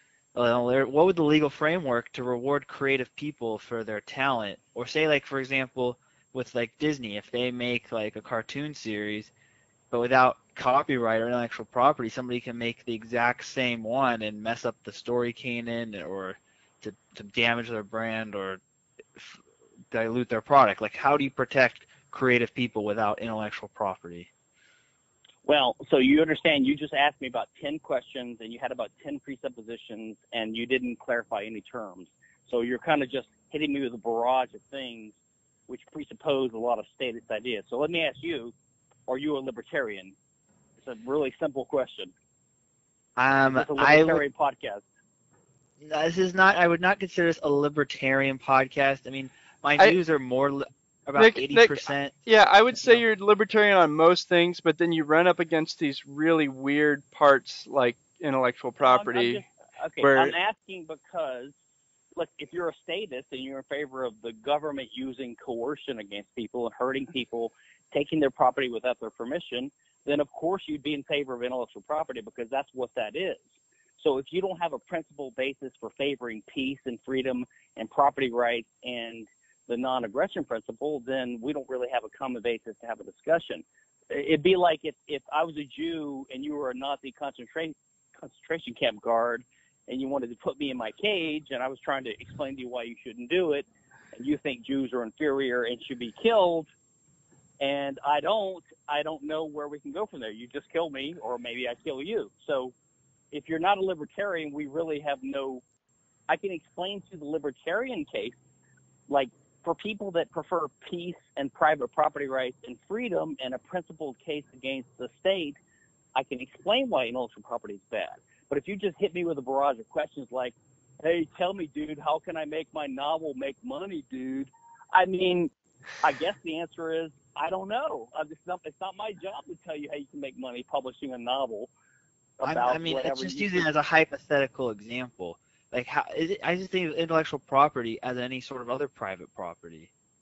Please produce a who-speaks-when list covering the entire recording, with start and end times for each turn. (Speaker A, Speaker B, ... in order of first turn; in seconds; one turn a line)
Speaker A: 0.3-9.3
Speaker A: 9.9-18.6
Speaker A: 19.2-24.3
Speaker B: 25.4-35.1
Speaker B: 35.7-38.5
Speaker B: 39.1-40.1
Speaker B: 40.8-42.1
Speaker A: 43.2-44.2
Speaker B: 43.5-44.8
Speaker A: 45.8-52.1
Speaker C: 51.2-59.4
Speaker A: 52.8-53.0
Speaker B: 58.8-61.5
Speaker C: 60.0-60.3
Speaker B: 62.1-73.4
Speaker B: 74.0-96.7
Speaker B: 97.6-102.7
Speaker B: 103.3-105.6
Speaker B: 106.3-108.3
Speaker B: 109.1-115.6
Speaker B: 116.1-131.7
Speaker B: 132.4-133.6
Speaker A: 132.4-139.9